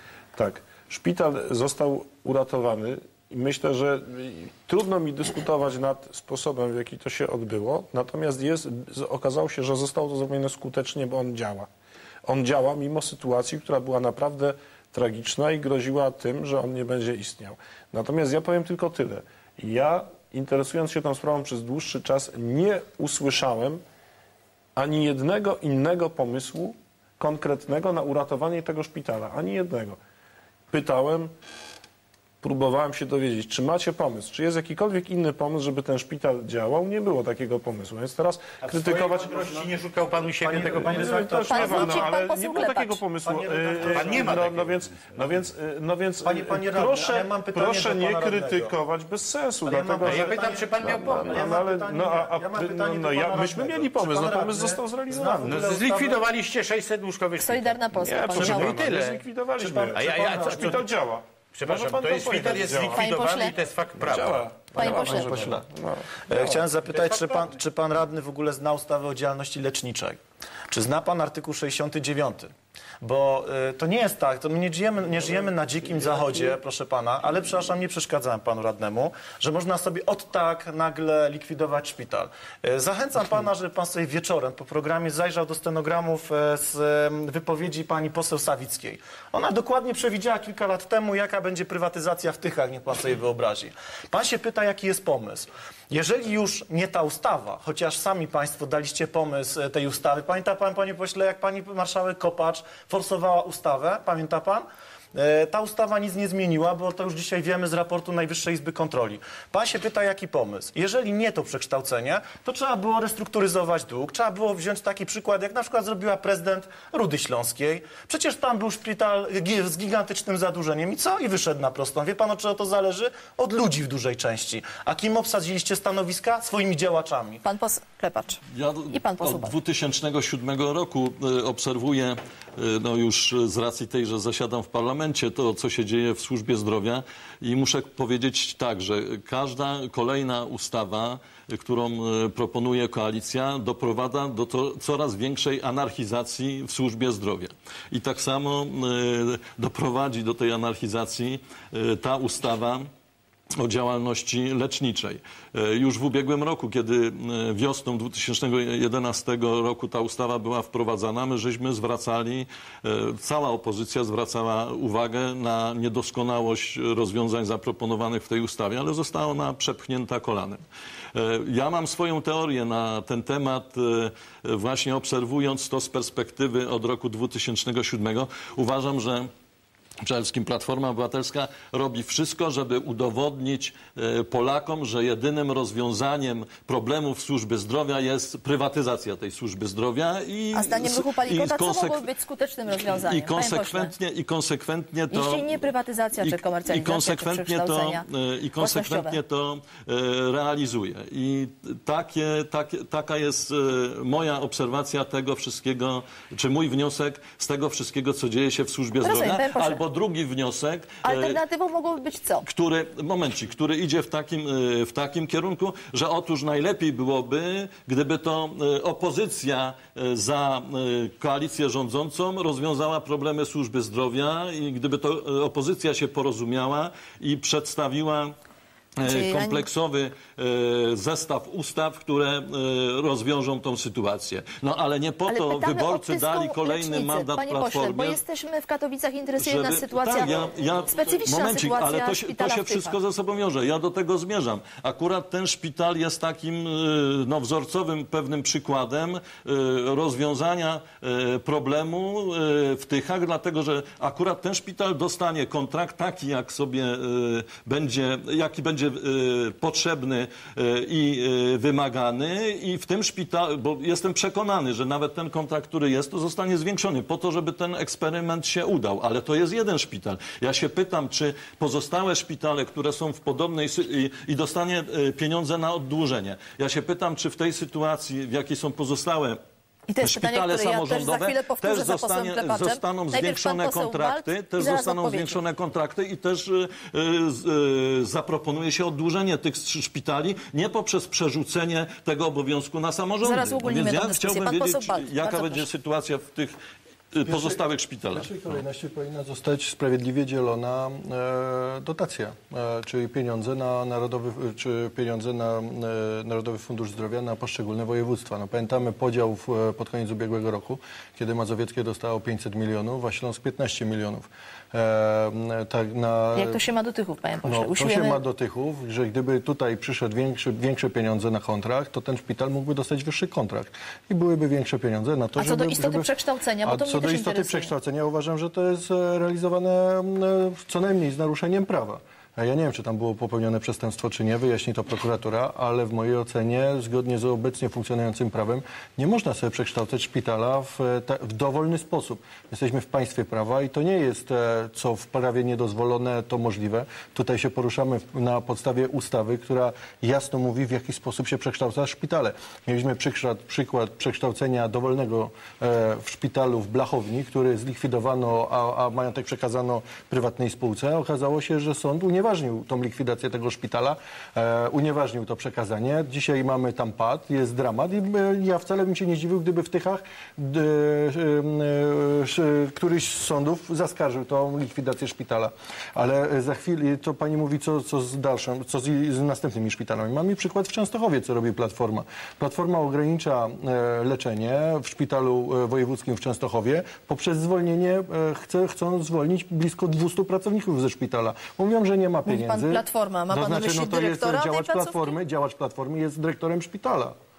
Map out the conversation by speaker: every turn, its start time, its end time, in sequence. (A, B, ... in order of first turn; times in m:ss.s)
0:00.3-0:11.7 A
0:12.2-0:23.8 A
0:24.8-0:30.0 A
0:30.7-0:31.3 A
0:32.4-0:39.7 A
0:38.6-0:41.9 B
0:40.4-0:42.2 C
0:40.5-0:55.8 A
0:41.5-0:43.0 D
0:43.2-0:44.5 C
0:43.8-0:45.2 B
0:46.2-0:48.7 C
0:49.6-0:56.2 C
0:50.0-0:51.4 B
0:55.4-0:59.2 B
0:57.4-0:58.9 D
0:58.0-1:03.1 A
0:58.5-0:59.0 C
0:59.6-1:00.8 C
0:59.9-1:00.8 B
1:01.5-1:04.5 B
1:01.7-1:02.8 C
1:02.8-1:03.5 D
1:03.9-1:06.7 A
1:04.7-1:05.7 C
1:04.8-1:05.3 D
1:06.3-2:07.4 C
1:06.9-1:07.5 B
2:07.4-2:08.4 D
2:08.5-2:32.9 E
2:08.9-2:09.5 D
2:33.6-2:50.6 E
2:51.1-2:59.3 E
3:00.0-3:12.1 E
3:10.5-3:13.9 D
3:12.7-3:15.7 E
3:15.1-3:18.0 D
3:16.2-3:31.4 E
3:18.6-3:19.2 D
3:29.0-3:29.8 D
3:31.0-3:32.4 D
3:32.4-3:48.4 E
3:49.0-3:58.2 E
3:49.0-3:49.7 D
3:55.3-4:03.0 D
3:59.4-4:39.4 E
4:39.9-4:45.4 D
4:40.0-4:56.6 E
4:53.2-4:55.7 D
4:57.1-4:58.6 E
4:57.2-5:16.6 F
5:16.3-5:18.2 D
5:17.4-5:26.1 F
5:25.4-5:27.7 D
5:26.6-6:37.2 F
6:32.2-6:35.2 D